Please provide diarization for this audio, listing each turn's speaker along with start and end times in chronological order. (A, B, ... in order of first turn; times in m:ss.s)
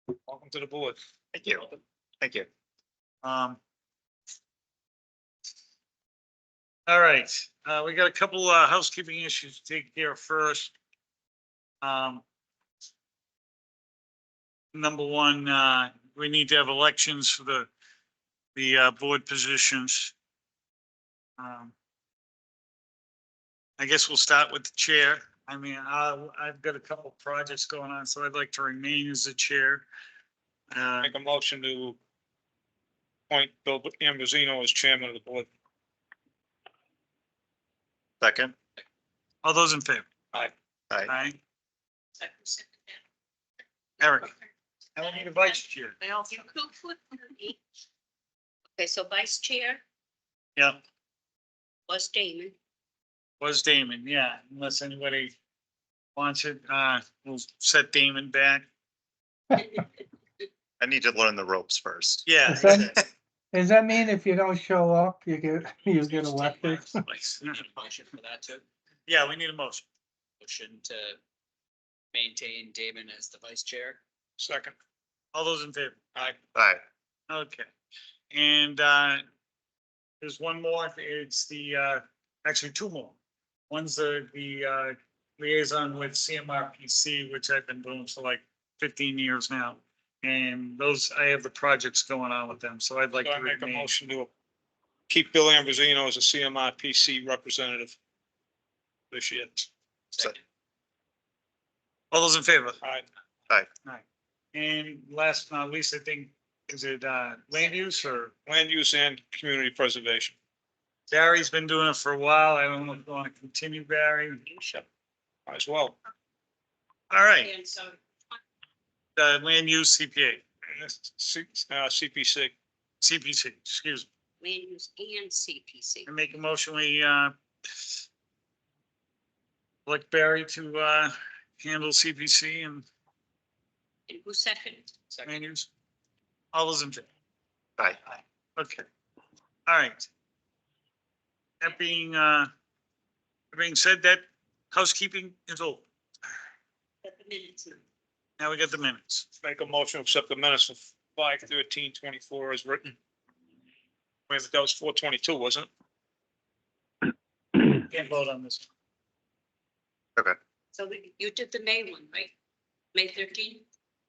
0:00.3-0:01.0 A
0:01.3-0:02.5 B
0:03.2-0:03.6 C
0:06.9-0:10.8 C
0:11.8-0:12.2 C
0:14.7-0:17.7 C
0:18.6-0:20.1 C
0:21.4-0:21.7 C
0:23.8-0:29.9 C
0:30.7-0:31.1 C
0:31.0-0:32.0 A
0:33.3-0:35.5 A
0:38.2-0:38.5 B
0:39.4-0:40.1 C
0:41.1-0:41.4 C
0:42.2-0:42.7 D
0:44.0-0:44.3 C
0:45.0-0:46.0 C
0:46.0-0:47.6 D
0:48.8-0:49.8 D
0:51.9-0:52.5 D
0:53.4-0:55.3 C
0:56.2-0:58.7 C
1:00.8-1:03.0 B
1:02.3-1:03.0 C
1:02.5-1:03.0 E
1:03.5-1:07.0 E
1:06.1-1:08.6 F
1:09.1-1:09.9 C
1:10.4-1:11.2 F
1:12.1-1:14.0 F
1:14.4-1:14.8 A
1:15.3-1:16.0 C
1:16.6-1:16.8 B
1:17.3-1:17.7 C
1:18.3-1:19.2 C
1:20.2-1:23.2 C
1:23.7-1:33.9 C
1:33.2-1:34.3 A
1:35.1-1:38.0 A
1:39.1-1:39.7 A
1:42.1-1:42.8 C
1:43.8-1:48.3 C
1:48.5-1:50.4 A
1:51.1-1:54.4 C
1:54.5-1:54.9 D
1:55.5-1:56.0 A
1:57.1-1:57.5 C
1:57.4-1:58.0 D
1:59.2-2:00.4 C
2:00.7-2:02.5 A
2:03.0-2:04.1 C
2:04.4-2:06.1 D
2:06.1-2:07.3 C
2:09.9-2:12.8 C
2:14.1-2:14.9 D
2:15.2-2:15.7 C
2:16.5-2:17.1 C
2:18.1-2:18.8 C
2:19.7-2:20.1 C
2:21.6-2:22.5 C
2:23.5-2:25.8 C
2:27.0-2:27.8 D
2:28.4-2:29.3 C
2:29.4-2:33.0 A
2:34.3-2:35.7 A
2:37.9-2:38.7 C
2:40.7-2:42.3 D
2:42.9-2:43.6 D